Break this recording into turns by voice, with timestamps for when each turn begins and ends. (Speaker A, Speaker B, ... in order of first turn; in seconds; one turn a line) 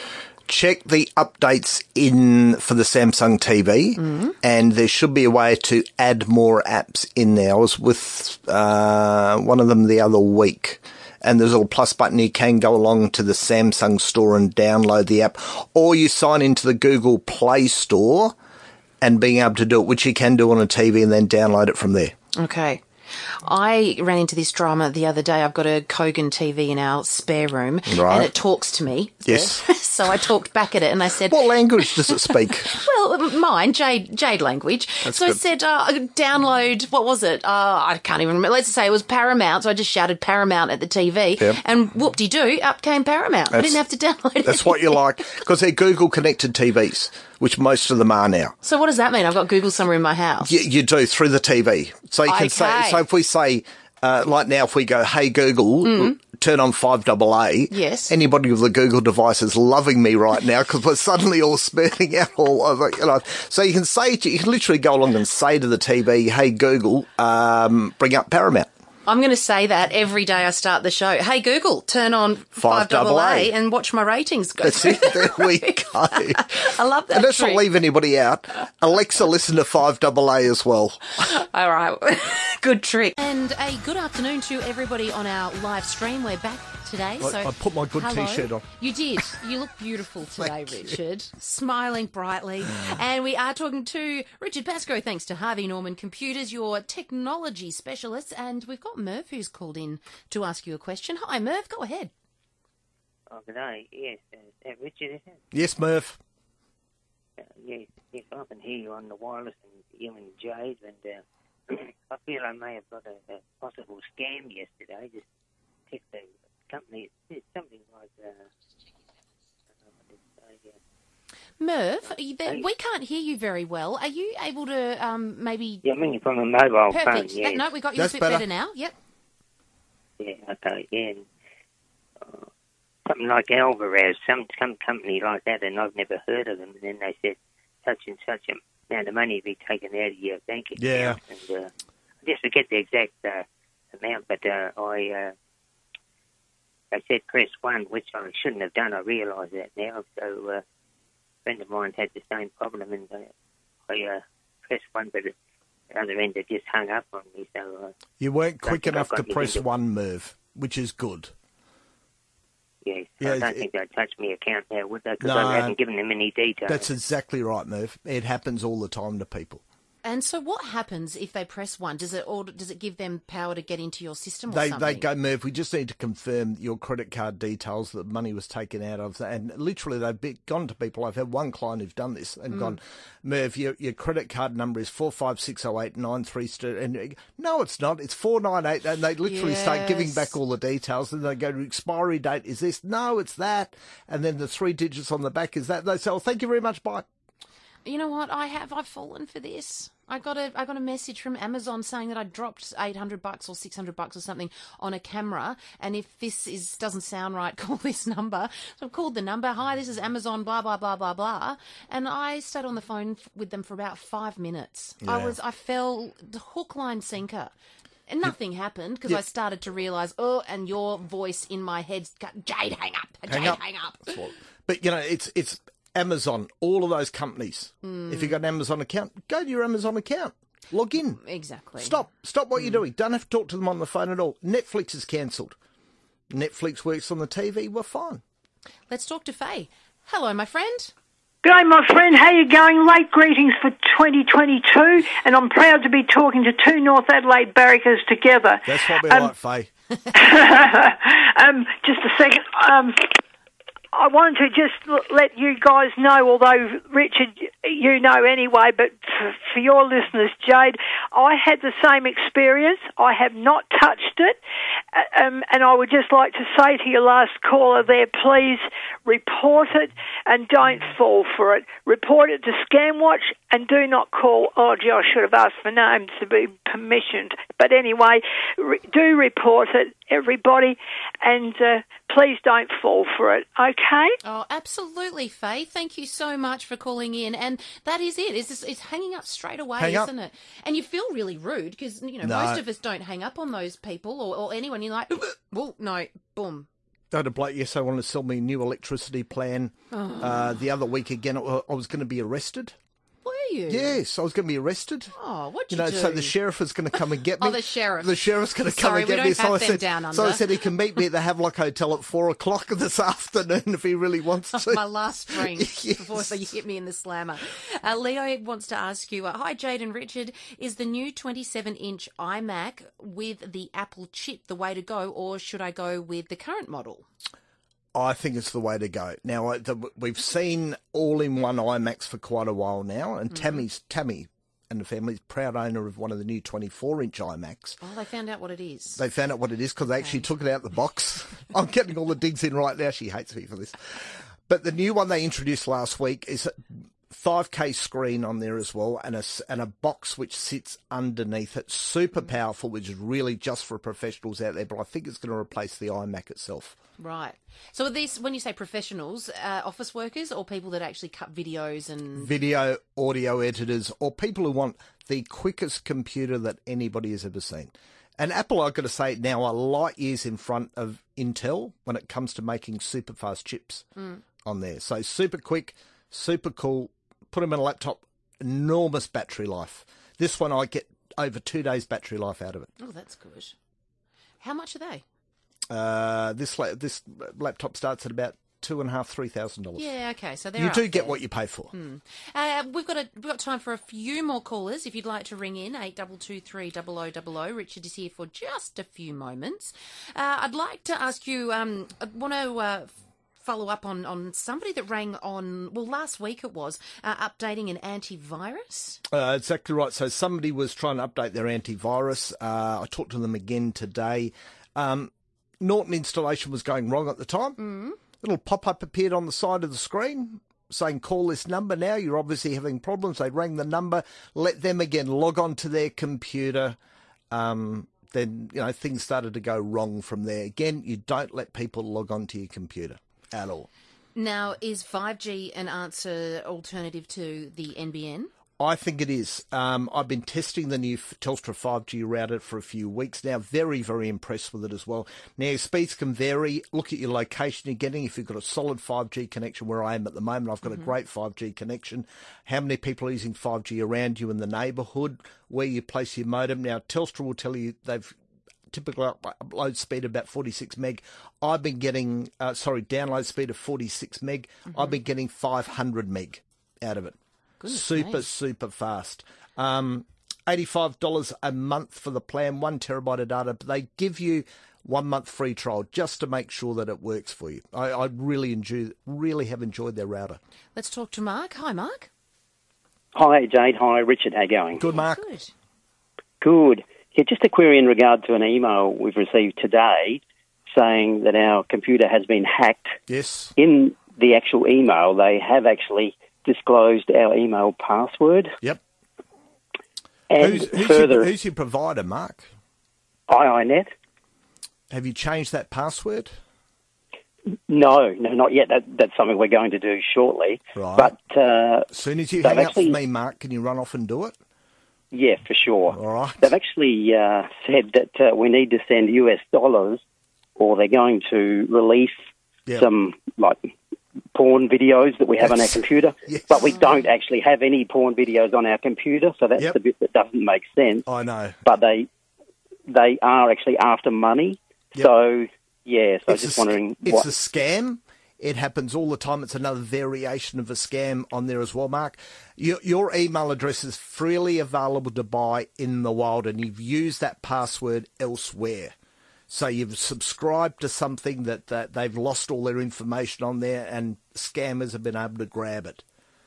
Speaker A: 0.5-18.3
Speaker B: 4.1-4.3
Speaker A: 19.0-22.1
Speaker B: 22.3-22.8
Speaker B: 23.4-31.6
Speaker A: 27.9-28.3
Speaker A: 29.2-29.6
Speaker A: 31.2-32.8
Speaker B: 32.7-45.0
Speaker A: 35.0-35.4
Speaker A: 43.5-43.8
Speaker A: 44.4-48.5
Speaker B: 48.6-50.5
Speaker A: 50.4-68.7
Speaker B: 52.2-53.0
Speaker B: 55.9-56.1
Speaker B: 57.7-58.1
Speaker B: 69.1-77.6
Speaker A: 72.6-73.5
Speaker A: 74.6-76.5
Speaker A: 77.1-81.1
Speaker B: 81.2-102.1
Speaker A: 87.2-88.6
Speaker A: 90.4-90.9
Speaker C: 103.3-105.4
Speaker A: 105.5-106.2
Speaker C: 107.4-115.2
Speaker C: 115.9-118.4
Speaker C: 120.4-120.7
Speaker B: 121.6-125.8
Speaker C: 125.8-127.7
Speaker B: 126.9-128.9
Speaker A: 127.9-128.4
Speaker C: 130.2-131.2
Speaker C: 132.2-132.4
Speaker C: 133.1-141.7
Speaker A: 140.8-141.2
Speaker C: 142.2-145.3
Speaker C: 146.9-150.6
Speaker C: 151.4-153.3
Speaker C: 153.9-155.3
Speaker C: 155.9-157.9
Speaker A: 158.2-161.3
Speaker C: 158.6-159.6
Speaker C: 162.8-166.8
Speaker A: 163.2-163.7
Speaker A: 165.2-165.8
Speaker A: 166.7-169.6
Speaker B: 170.0-175.1
Speaker A: 174.5-197.1
Speaker B: 189.2-190.3
Speaker B: 197.8-217.5
Speaker A: 215.0-215.3
Speaker B: 218.1-224.1
Speaker A: 223.3-231.2
Speaker B: 227.8-228.3
Speaker B: 231.2-232.0
Speaker A: 231.8-235.6
Speaker A: 236.3-238.2
Speaker B: 238.9-240.9
Speaker D: 241.4-249.3
Speaker A: 248.7-249.7
Speaker D: 250.1-253.2
Speaker D: 253.9-264.4
Speaker D: 264.9-284.1
Speaker B: 284.2-296.7
Speaker A: 289.8-290.1
Speaker A: 292.2-292.6
Speaker A: 297.1-302.7
Speaker B: 299.9-300.4
Speaker B: 303.2-304.0
Speaker A: 303.7-305.1
Speaker B: 305.2-306.3
Speaker A: 305.7-316.3
Speaker B: 307.4-310.4
Speaker B: 314.5-327.1
Speaker A: 327.9-337.8
Speaker B: 337.8-339.0
Speaker A: 339.0-343.9
Speaker A: 344.5-346.6
Speaker A: 347.1-356.8
Speaker B: 357.0-362.3
Speaker A: 362.2-373.9
Speaker A: 374.4-382.7
Speaker B: 382.8-383.6
Speaker B: 384.4-385.0
Speaker A: 385.7-389.9
Speaker B: 389.8-391.2
Speaker A: 390.6-391.7
Speaker B: 391.7-409.0
Speaker A: 409.1-417.6
Speaker B: 417.6-418.0
Speaker A: 418.2-426.8
Speaker A: 427.3-433.7
Speaker B: 434.1-438.3
Speaker A: 438.6-458.1
Speaker A: 458.7-467.2
Speaker B: 467.6-468.2
Speaker A: 467.7-480.4
Speaker B: 480.7-482.1
Speaker E: 483.1-484.8
Speaker A: 484.8-485.2
Speaker B: 484.9-485.5
Speaker E: 486.4-490.2
Speaker E: 490.7-492.9
Speaker A: 493.1-493.6
Speaker E: 493.6-498.5
Speaker E: 500.3-501.3
Speaker A: 500.4-502.5
Speaker E: 503.3-503.9
Speaker A: 504.9-506.4
Speaker E: 507.7-511.9
Speaker A: 510.8-511.1
Speaker A: 511.9-514.3
Speaker E: 512.4-513.0
Speaker E: 515.1-520.0
Speaker A: 515.9-516.5
Speaker E: 520.6-522.1
Speaker E: 522.8-523.7
Speaker E: 524.3-531.1
Speaker A: 525.4-526.8
Speaker A: 531.1-531.6
Speaker E: 531.6-532.1
Speaker E: 532.9-537.3
Speaker A: 536.3-548.9
Speaker A: 549.5-556.0